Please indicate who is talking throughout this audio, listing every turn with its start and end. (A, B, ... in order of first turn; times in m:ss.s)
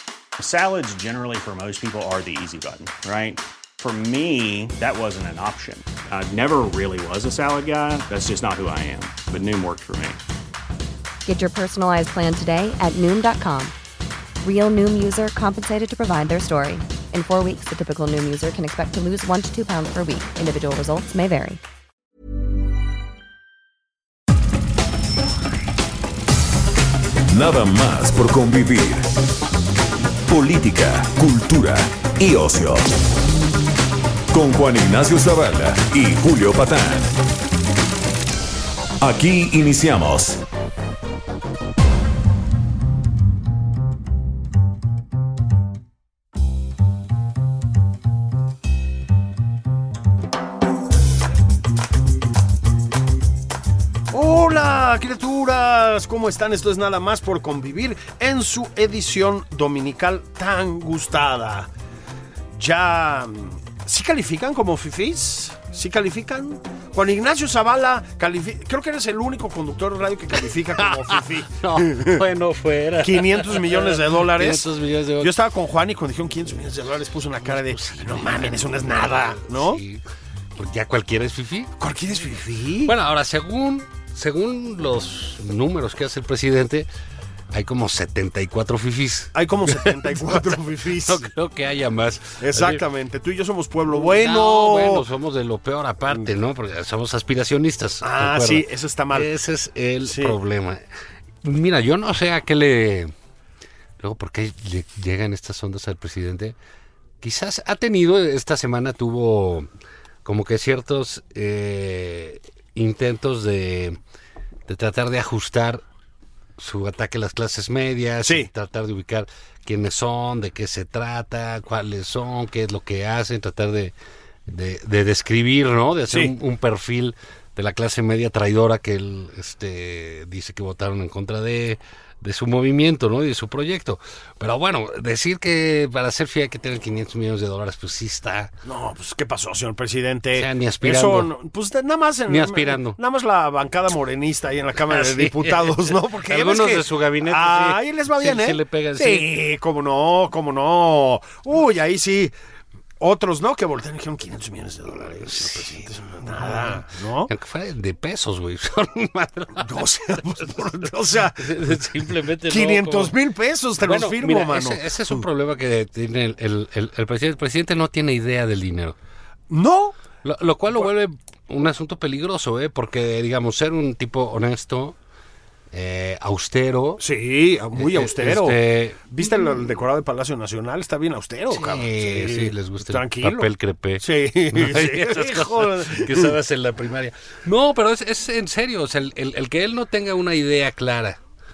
0:00.4-0:10.2 A
0:11.2-0:13.7 B
0:14.4-0:21.6 B
0:27.3-0:29.2 C
0:30.3-0:32.9 C
0:34.3-0:37.2 C
0:39.0-0:40.4 C
0:54.1-1:01.7 D
1:02.5-1:12.2 D
1:10.8-1:15.3 E
1:13.0-1:19.8 D
1:17.4-1:20.0 E
1:20.6-1:21.7 E
1:21.8-1:22.9 D
1:22.8-1:26.9 E
1:27.5-1:32.8 E
1:29.4-1:31.3 D
1:32.4-1:35.0 D
1:33.9-1:40.8 E
1:38.0-1:39.3 D
1:40.0-1:40.4 D
1:41.4-1:43.1 E
1:44.0-1:46.6 E
1:47.2-1:49.7 E
1:50.2-1:54.0 E
1:54.7-1:55.8 E
1:56.6-2:04.0 E
1:58.2-1:58.5 D
2:04.5-2:18.5 E
2:18.6-2:32.3 D
2:20.4-2:21.3 E
2:22.3-2:23.0 E
2:24.9-2:29.3 E
2:33.0-2:37.3 D
2:35.2-2:35.8 E
2:37.3-2:39.9 E
2:39.6-2:44.9 D
2:41.4-2:43.2 E
2:43.8-2:49.0 E
2:49.5-2:50.0 D
2:50.2-2:55.0 E
2:55.7-2:57.0 E
2:57.0-3:03.5 D
2:57.8-2:59.1 E
3:01.5-3:11.2 E
3:04.0-3:06.4 D